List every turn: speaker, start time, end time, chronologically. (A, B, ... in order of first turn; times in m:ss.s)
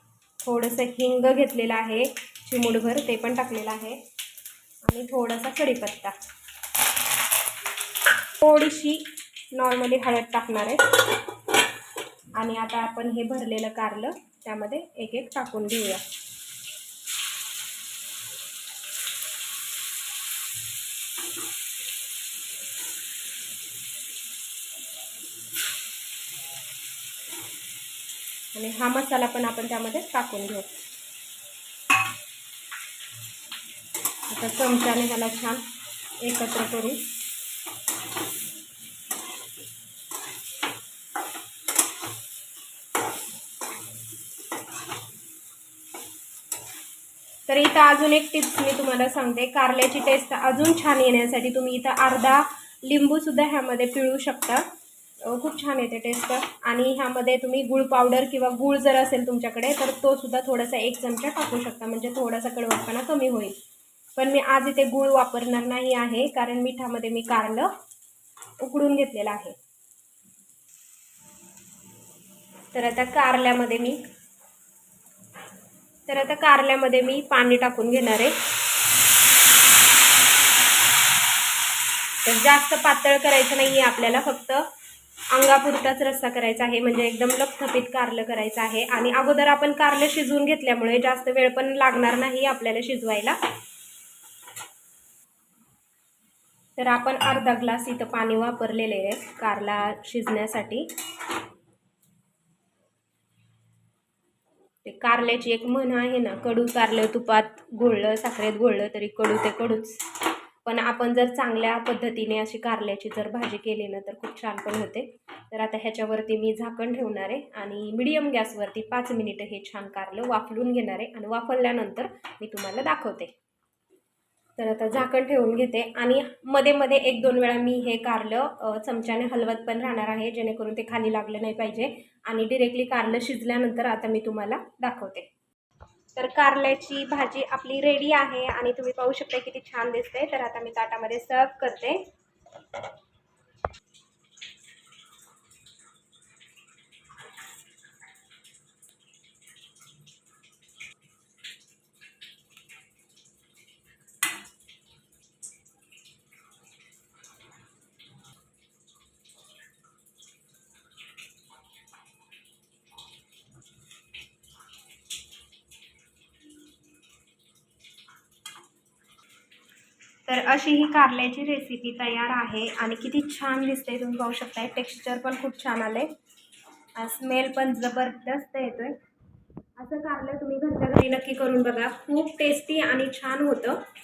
0:00.4-0:04.0 A
0:04.8-0:06.1 A
0:08.4-0:11.0 A
0:12.4-0:16.0 A
0:28.5-0:30.7 A
0:34.3-0:35.6 A
0:36.2-0:37.0 A
0:47.5-0:54.6 A
0:55.2-1:03.6 A
1:04.2-1:07.7 A
1:08.6-1:09.6 A
1:12.7-1:14.0 A
1:16.1-1:18.3 A
1:22.2-1:24.7 A
1:25.3-1:33.4 A
1:36.8-1:40.9 A
1:44.8-1:50.0 A
1:50.6-2:03.3 A
2:04.6-2:15.3 A
2:16.2-2:22.0 A
2:50.2-2:56.1 A
2:57.0-2:59.0 A
2:59.8-3:03.8 A